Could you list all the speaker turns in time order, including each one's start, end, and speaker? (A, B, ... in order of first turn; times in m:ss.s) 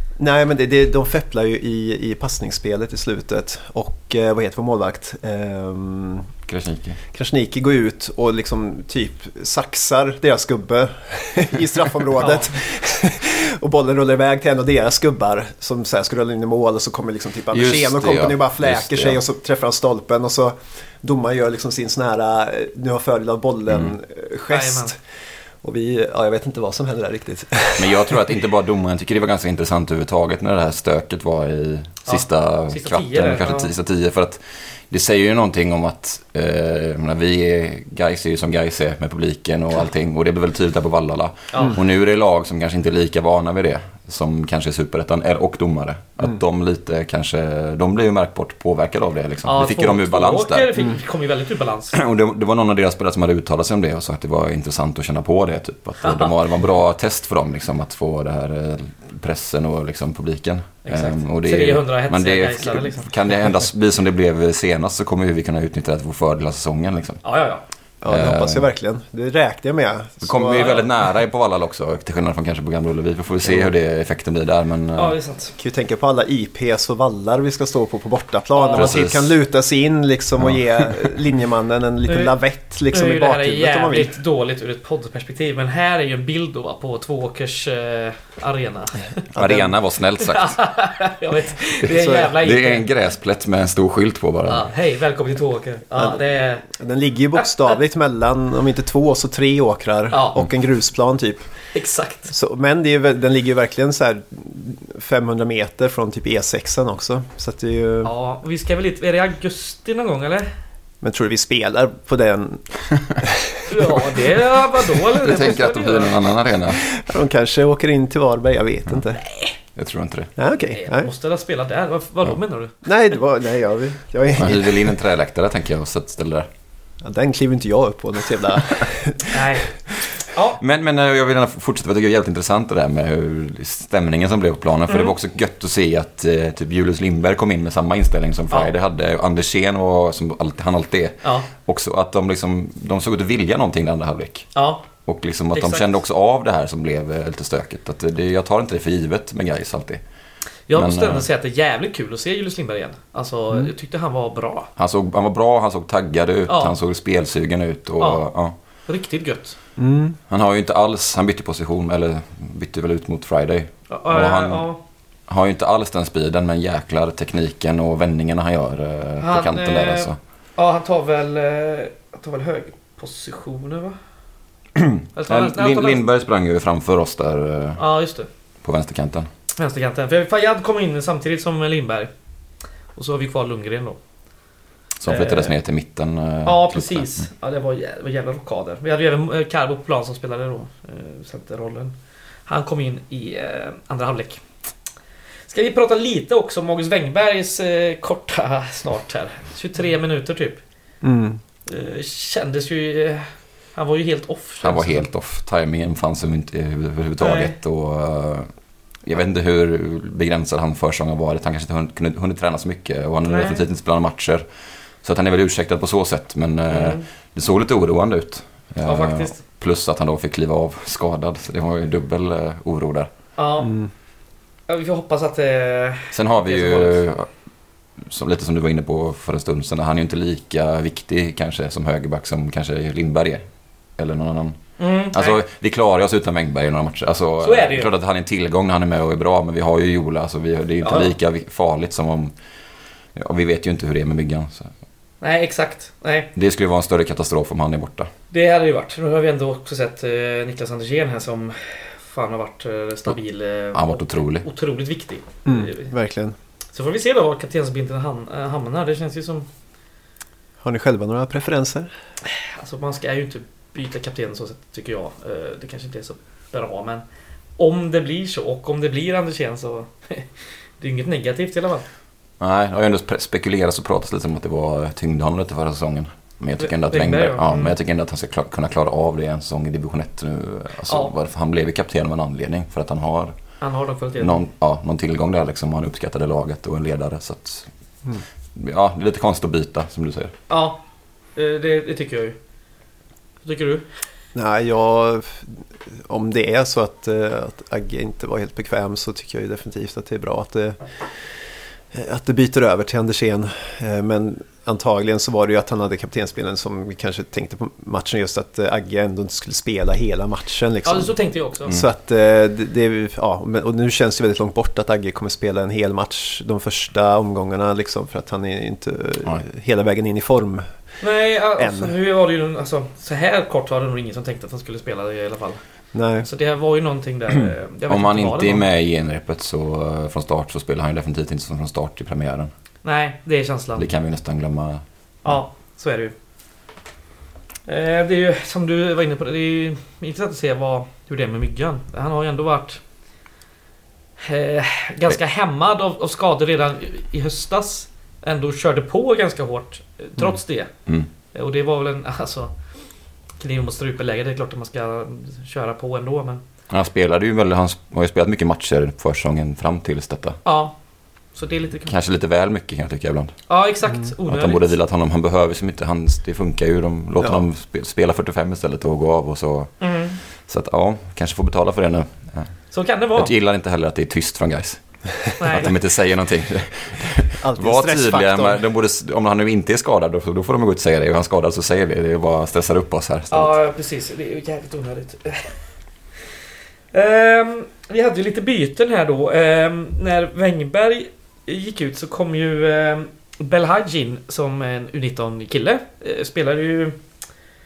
0:00.2-0:06.3 A
0:06.5-0:07.0 B
0:07.1-0:25.0 A
0:12.2-0:12.6 C
0:17.5-0:19.2 B
0:24.5-0:24.9 C
0:25.6-0:28.3 A
0:27.8-0:50.7 B
0:32.1-0:33.7 C
0:41.5-0:41.8 C
0:49.4-0:52.0 C
0:51.9-1:07.2 B
0:56.0-0:56.3 C
1:00.8-1:03.1 C
1:07.2-1:07.6 C
1:08.0-1:10.7 A
1:08.0-1:08.7 B
1:10.2-1:15.2 B
1:10.6-1:10.8 C
1:13.4-1:13.7 A
1:15.0-1:15.5 C
1:15.6-1:24.2 A
1:18.6-1:19.0 C
1:18.7-1:19.4 B
1:20.4-1:21.2 B
1:22.1-1:22.3 C
1:22.9-1:29.2 C
1:29.3-1:29.7 A
1:29.4-1:30.6 B
1:30.2-1:32.9 C
1:31.8-1:34.7 B
1:34.5-1:36.7 C
1:35.9-1:41.4 A
1:40.1-1:40.5 C
1:41.7-1:42.3 C
1:42.3-1:48.1 A
1:48.0-1:50.5 C
1:51.0-1:54.2 A
1:53.7-1:56.1 C
1:55.2-1:56.9 B
1:56.8-1:59.2 A
1:59.8-2:00.3 B
2:00.4-2:01.1 A
2:00.7-2:02.8 C
2:02.8-2:05.0 A
2:04.4-2:06.5 B
2:07.0-2:10.1 A
2:09.3-2:09.7 C
2:10.3-2:10.6 C
2:10.6-2:30.0 B
2:14.9-2:15.1 C
2:21.2-2:21.5 C
2:24.6-2:24.8 C
2:25.5-2:25.9 C
2:30.7-2:34.7 C
2:30.7-2:31.3 B
2:34.8-2:38.5 B
2:36.5-2:36.7 C
2:38.0-2:38.2 C
2:38.9-2:39.6 C
2:39.8-2:40.2 A
2:40.3-2:44.7 B
2:43.9-2:44.8 C
2:45.3-2:50.2 B
2:49.2-2:54.0 C
2:54.8-2:57.8 B
2:55.2-2:56.0 C
2:57.8-2:58.3 C
2:58.6-2:59.3 B
2:59.6-3:02.1 C
3:03.0-3:04.0 C
3:05.0-3:07.3 B
3:05.1-3:05.5 C
3:06.4-3:14.4 C
3:15.5-3:20.6 C
3:21.0-3:21.4 A
3:21.7-3:25.1 C
3:24.6-3:28.5 B
3:27.2-3:27.6 C
3:29.0-3:34.4 B
3:33.2-3:33.6 C
3:35.0-3:43.1 B
3:36.7-3:37.0 C
3:38.8-3:39.4 C
3:43.4-3:43.8 C
3:43.6-3:43.9 A
3:44.7-3:47.0 C
3:46.1-3:47.3 B
3:48.0-3:53.4 B
3:54.0-4:02.3 B
3:54.8-3:55.4 C
3:57.4-3:57.9 C
4:00.8-4:01.1 C
4:03.2-4:04.7 B
4:05.2-4:06.3 C
4:06.4-4:08.1 B
4:08.3-4:15.9 C
4:13.7-4:14.5 B
4:15.4-4:16.4 A
4:16.7-4:19.5 C
4:20.6-4:21.9 A
4:22.3-4:27.0 C
4:27.6-4:31.8 C
4:32.4-4:43.4 B
4:36.6-4:37.7 C
4:43.6-4:44.4 C
4:44.2-4:47.7 B
4:48.6-4:50.3 B
4:50.5-4:50.8 C
4:51.4-4:52.4 C
4:53.4-4:53.9 C
4:54.3-5:01.0 A
5:01.9-5:20.7 A
5:10.8-5:11.8 C
5:21.0-5:25.6 C
5:21.6-5:22.0 A
5:25.9-5:26.3 A
5:26.2-5:28.7 C
5:27.9-5:32.5 B
5:32.8-5:33.9 C
5:33.8-5:34.8 B
5:35.2-5:36.1 C
5:37.7-5:42.8 C
5:44.2-5:50.7 C
5:51.3-5:52.5 C
5:53.4-5:56.4 C
5:56.7-6:00.4 B
6:00.4-6:00.8 C
6:01.3-6:01.9 C
6:01.9-6:03.4 B
6:03.5-6:04.7 C
6:04.3-6:23.6 B
6:09.8-6:10.2 C
6:12.7-6:13.3 C
6:15.4-6:15.7 C
6:17.3-6:18.6 A
6:23.3-6:25.6 C
6:26.9-6:37.0 C